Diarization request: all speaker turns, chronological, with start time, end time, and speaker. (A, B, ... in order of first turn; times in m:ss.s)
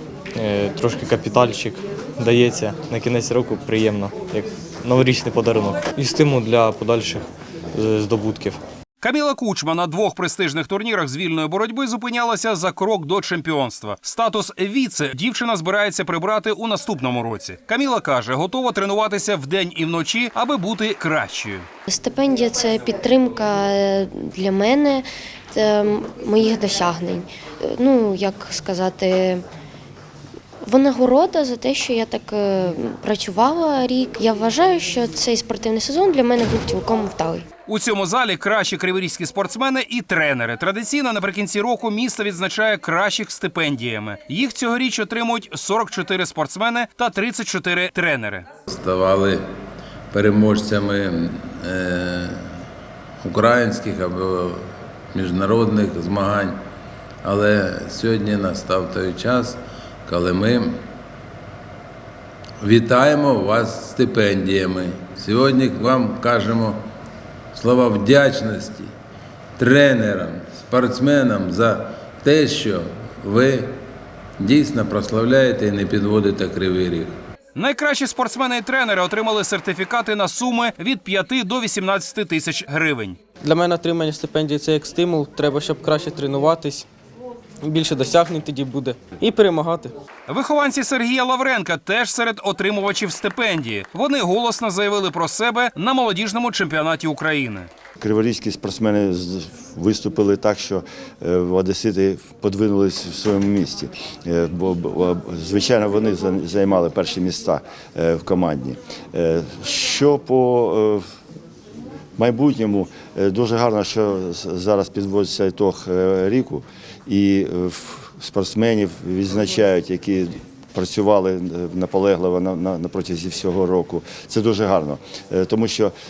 0:00.4-0:08.6 A
0:09.0-0:21.7 B
0:21.9-0:29.4 C
0:30.6-0:37.4 C
0:37.7-0:48.5 B
0:48.7-0:49.4 D
0:50.1-0:52.5 D
0:53.2-0:56.6 D
0:57.2-1:00.8 D
1:02.6-1:06.8 D
1:07.5-1:08.9 D
1:09.6-1:13.8 D
1:14.4-1:17.2 D
1:17.6-1:23.2 B
1:23.4-1:26.9 E
1:27.6-1:29.9 E
1:30.3-1:37.7 B
1:38.0-1:51.0 F
1:52.2-2:05.9 F